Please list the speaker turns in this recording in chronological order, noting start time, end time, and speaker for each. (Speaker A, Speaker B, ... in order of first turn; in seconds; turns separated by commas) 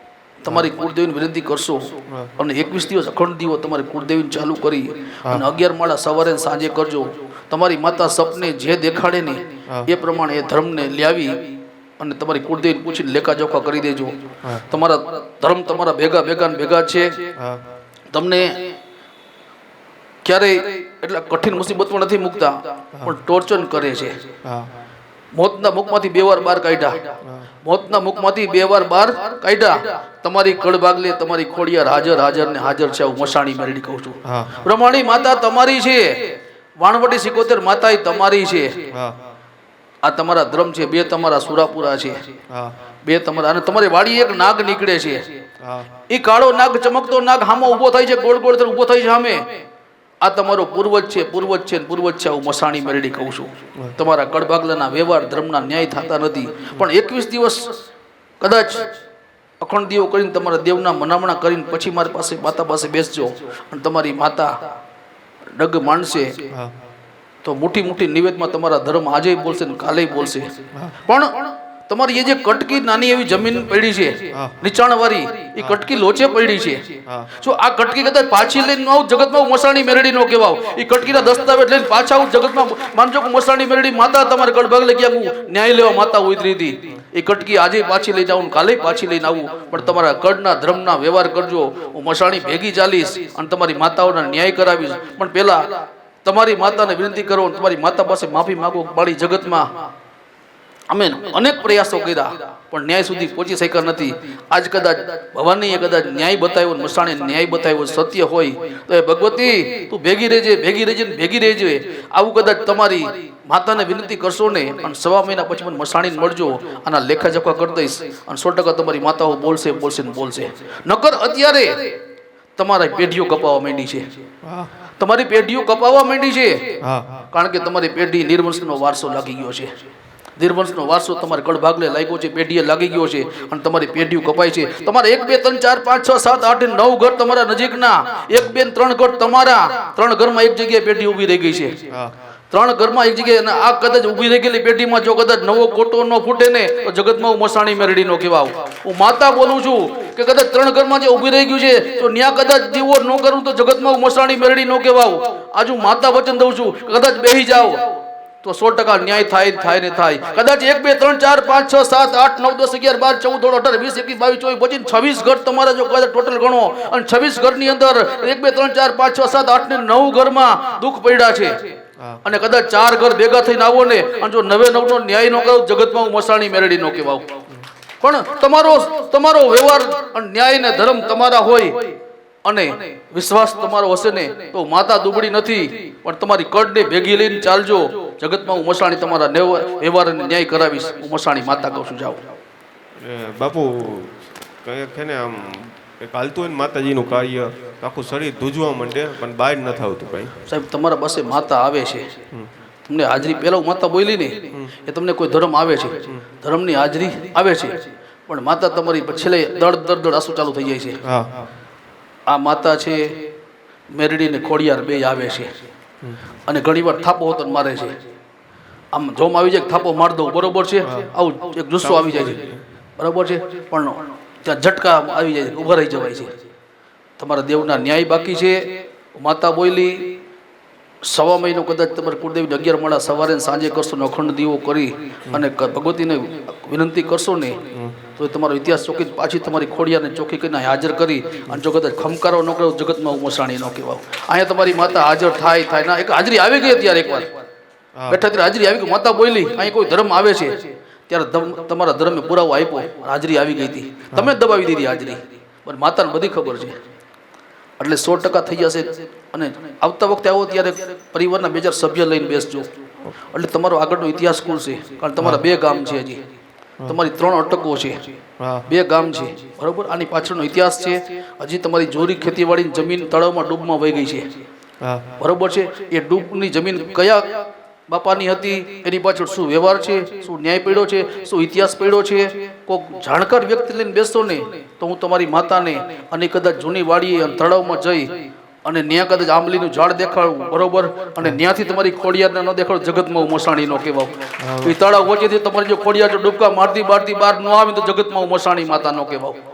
Speaker A: 0.4-17.3, Speaker B: 17.4-17.7, Speaker A: 18.1-18.7, Speaker A: 20.2-24.2, Speaker B: 24.4-24.8, Speaker A: 25.3-38.9, Speaker B: 34.3-34.7, Speaker B: 38.9-39.2, Speaker A: 40.0-42.3, Speaker B: 42.5-42.8, Speaker A: 43.0-45.3, Speaker B: 45.6-46.0, Speaker A: 46.1-49.6, Speaker A: 50.2-57.7, Speaker A: 58.4-58.9, Speaker A: 59.6-64.7, Speaker A: 65.6-66.5, Speaker A: 67.4-99.7, Speaker B: 74.3-74.6, Speaker B: 77.1-77.3, Speaker A: 100.9-122.0, Speaker A: 122.6-124.2, Speaker B: 124.4-124.8, Speaker A: 125.0-126.8, Speaker B: 126.8-127.3, Speaker A: 127.3-129.8, Speaker A: 130.4-141.9, Speaker A: 142.5-171.7, Speaker A: 172.2-177.4, Speaker A: 178.0-192.3, Speaker B: 193.0-200.4, Speaker A: 200.4-202.2, Speaker A: 202.8-211.1, Speaker B: 211.0-211.5, Speaker A: 212.3-213.2, Speaker A: 213.9-215.6, Speaker A: 216.5-218.0, Speaker A: 218.9-226.4, Speaker B: 220.8-221.1, Speaker B: 221.8-222.6, Speaker A: 227.2-230.2, Speaker A: 231.0-247.4, Speaker B: 237.7-238.1, Speaker A: 248.1-256.8, Speaker A: 257.8-262.8, Speaker A: 263.3-266.3, Speaker A: 266.9-268.1, Speaker B: 268.4-268.7, Speaker A: 268.7-274.4, Speaker B: 274.8-275.2, Speaker A: 275.2-299.4, Speaker B: 294.4-294.8